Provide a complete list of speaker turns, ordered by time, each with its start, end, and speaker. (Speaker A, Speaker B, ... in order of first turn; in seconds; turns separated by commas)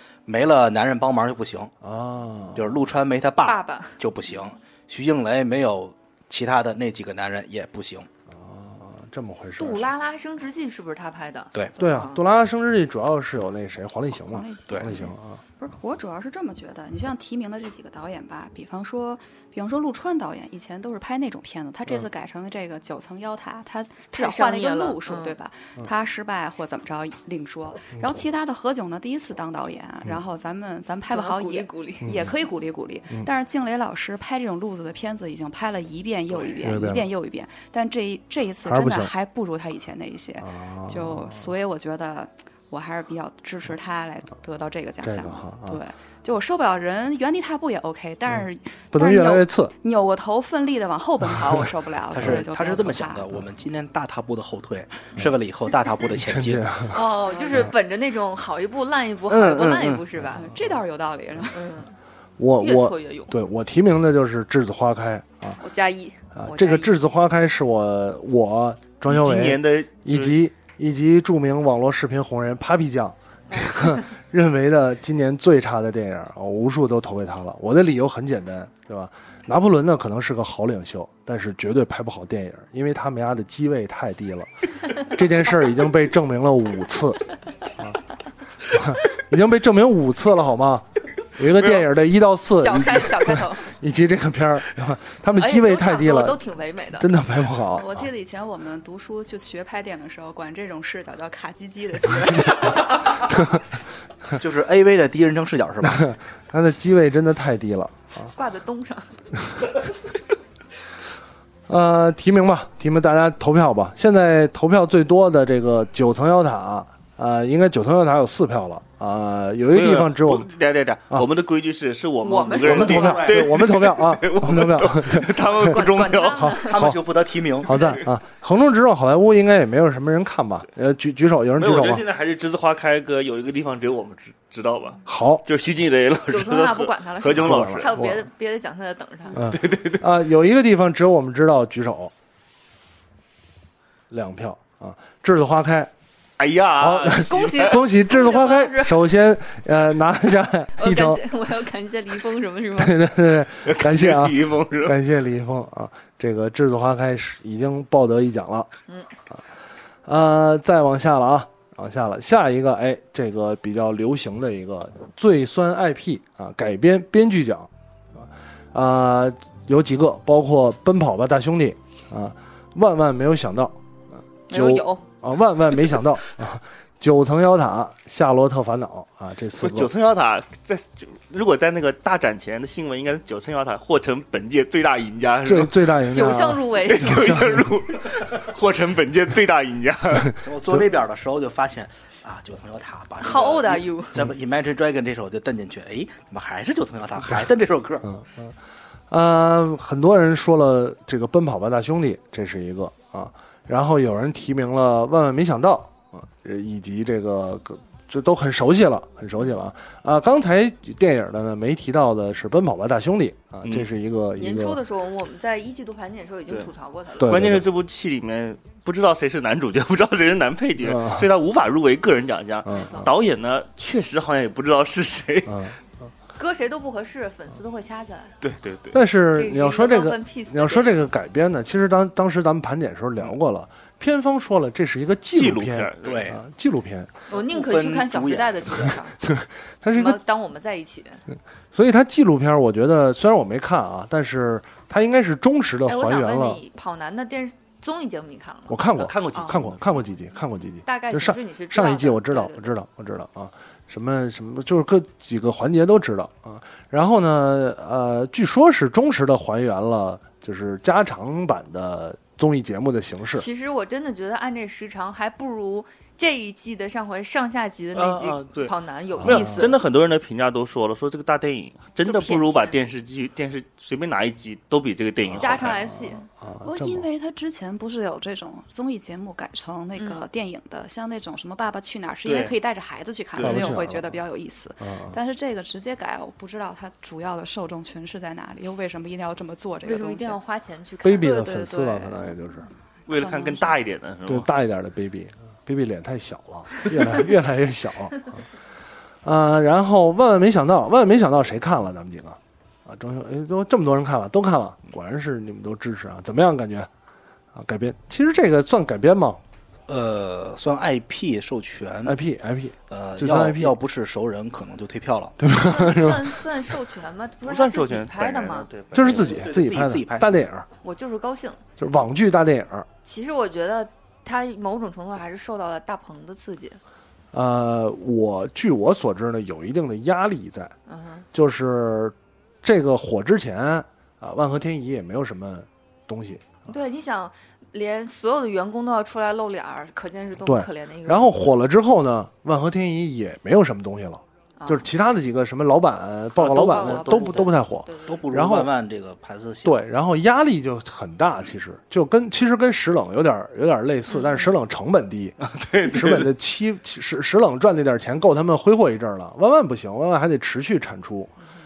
Speaker A: 0.2-1.7, Speaker B: 1.8-2.8, Speaker A: 2.5-8.1, Speaker C: 3.4-4.0, Speaker B: 8.3-9.9, Speaker C: 9.6-12.2, Speaker B: 11.8-15.4, Speaker D: 14.1-53.3, Speaker A: 14.7-15.0, Speaker C: 24.1-25.4, Speaker C: 31.1-32.1, Speaker B: 32.0-32.3, Speaker B: 36.6-37.1, Speaker B: 38.6-39.1, Speaker B: 40.4-41.5, Speaker B: 45.0-45.8, Speaker B: 48.3-49.7, Speaker A: 52.1-56.7, Speaker B: 52.1-52.4, Speaker B: 56.1-57.0, Speaker C: 56.9-60.5, Speaker D: 57.3-57.6, Speaker A: 59.3-60.0, Speaker D: 60.3-61.7, Speaker C: 61.5-61.9, Speaker B: 62.4-65.6, Speaker C: 62.6-63.4, Speaker C: 65.6-66.9, Speaker B: 66.3-88.0, Speaker E: 69.1-70.4, Speaker C: 73.5-74.1, Speaker B: 88.7-96.4, Speaker C: 92.5-93.7, Speaker C: 95.3-97.1, Speaker B: 97.0-98.0, Speaker D: 97.7-103.0, Speaker A: 104.3-106.1, Speaker B: 105.8-108.3, Speaker C: 108.3-109.1, Speaker B: 111.7-120.5, Speaker E: 119.7-126.6, Speaker C: 122.2-123.3, Speaker A: 122.6-123.4, Speaker B: 122.7-127.0, Speaker C: 125.4-126.8, Speaker A: 126.7-127.8, Speaker B: 127.6-132.0, Speaker E: 131.6-137.9, Speaker B: 135.1-135.4, Speaker C: 136.3-139.4, Speaker B: 137.3-138.3, Speaker E: 139.4-140.0, Speaker B: 139.4-142.1, Speaker B: 144.1-145.9, Speaker E: 146.4-147.8, Speaker B: 146.8-151.2, Speaker C: 147.2-149.0, Speaker C: 150.8-153.0, Speaker B: 152.8-158.7, Speaker E: 153.6-155.0, Speaker B: 160.0-173.8, Speaker C: 174.5-175.0, Speaker B: 174.5-179.9, Speaker E: 179.6-186.0, Speaker B: 185.4-187.8, Speaker C: 186.1-187.3, Speaker E: 186.8-190.3, Speaker B: 190.2-190.8, Speaker A: 190.4-198.1, Speaker C: 193.2-194.2, Speaker B: 198.0-198.5, Speaker B: 199.1-214.8, Speaker C: 214.4-217.3, Speaker E: 216.5-225.8, Speaker B: 217.2-217.7, Speaker B: 220.8-221.3, Speaker B: 222.7-222.9, Speaker C: 222.7-223.1, Speaker B: 225.4-225.8, Speaker C: 226.4-228.3, Speaker E: 228.4-229.0, Speaker B: 228.9-237.1, Speaker C: 229.3-231.0, Speaker E: 235.3-236.3, Speaker A: 236.0-236.4, Speaker A: 237.3-238.9, Speaker C: 237.3-239.2, Speaker B: 239.2-240.2, Speaker C: 239.9-241.2, Speaker B: 241.7-246.6, Speaker C: 245.8-248.8, Speaker B: 248.7-263.5, Speaker E: 248.9-250.0, Speaker C: 250.8-252.8, Speaker C: 263.3-269.8, Speaker E: 267.9-275.8, Speaker B: 269.2-269.7, Speaker C: 272.0-272.8, Speaker B: 275.3-277.1, Speaker C: 275.4-276.2, Speaker D: 276.6-290.4, Speaker E: 282.2-282.5, Speaker E: 283.4-283.8, Speaker B: 283.4-284.2, Speaker B: 284.8-285.2, Speaker C: 289.8-292.2, Speaker B: 291.0-292.7, Speaker E: 293.1-294.5, Speaker D: 293.1-293.8, Speaker B: 294.2-298.5, Speaker B: 299.2-306.9, Speaker B: 307.5-309.4, Speaker A: 309.9-312.2, Speaker B: 312.0-313.8, Speaker A: 312.9-315.4, Speaker B: 315.4-316.4, Speaker C: 315.5-318.7, Speaker E: 317.4-319.4, Speaker B: 318.9-320.7, Speaker A: 319.0-320.3, Speaker C: 320.8-321.6, Speaker B: 321.8-322.9, Speaker C: 323.0-326.8, Speaker B: 327.3-330.7, Speaker C: 330.9-331.2, Speaker B: 331.3-336.6, Speaker C: 336.7-341.3, Speaker B: 340.4-348.7, Speaker C: 344.6-344.9, Speaker E: 346.4-347.5, Speaker C: 346.4-348.2, Speaker A: 348.1-349.8, Speaker B: 349.6-361.3, Speaker C: 354.1-354.5, Speaker E: 355.4-356.3